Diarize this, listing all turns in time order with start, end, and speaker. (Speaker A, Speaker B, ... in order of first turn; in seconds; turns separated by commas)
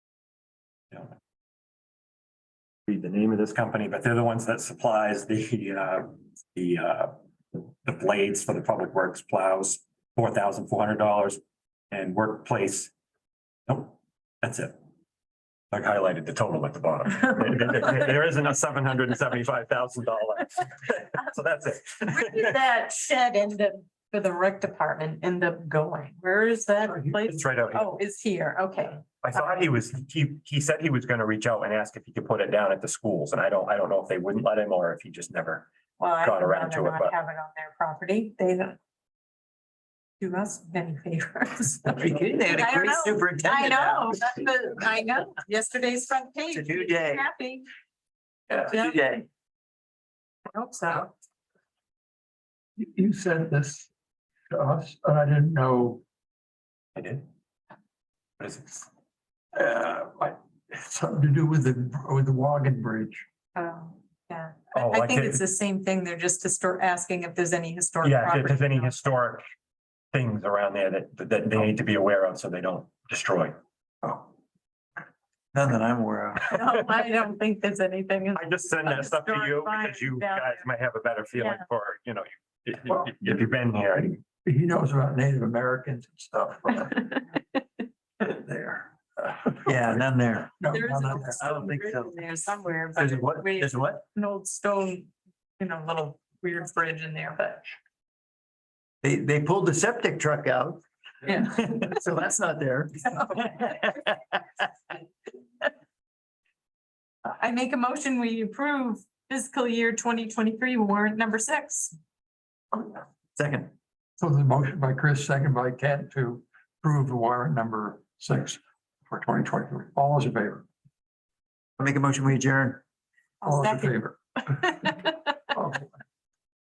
Speaker A: 2.9-11.4, Speaker A: 11.9-12.9, Speaker A: 13.7-14.8, Speaker A: 15.7-22.4, Speaker B: 22.0-29.7, Speaker A: 27.3-27.9, Speaker A: 29.2-35.7, Speaker B: 36.0-38.8, Speaker A: 36.2-37.1, Speaker B: 40.2-47.7, Speaker C: 41.9-44.3, Speaker C: 46.5-47.2, Speaker C: 48.5-49.3, Speaker B: 48.7-49.0, Speaker B: 50.5-51.1, Speaker D: 52.8-53.9, Speaker D: 54.5-56.0, Speaker A: 57.0-57.2, Speaker A: 58.4-58.9, Speaker D: 59.5-63.2, Speaker B: 63.5-69.0, Speaker A: 64.8-65.4, Speaker A: 68.0-69.4, Speaker A: 70.1-73.6, Speaker C: 75.5-76.5, Speaker B: 76.4-80.7, Speaker A: 78.3-84.2, Speaker B: 81.4-81.6, Speaker D: 82.9-83.2, Speaker D: 84.4-87.2, Speaker B: 86.9-87.4, Speaker D: 88.2-90.0, Speaker C: 89.7-90.5, Speaker D: 90.6-91.4, Speaker B: 90.7-97.7, Speaker C: 91.4-92.2, Speaker C: 93.0-94.0, Speaker C: 99.0-104.1, Speaker B: 101.2-101.7, Speaker B: 107.3-112.0, Speaker C: 113.4-113.7, Speaker D: 114.2-120.7, Speaker C: 121.8-122.8, Speaker B: 123.4-125.4, Speaker D: 123.5-124.2, Speaker D: 125.5-125.9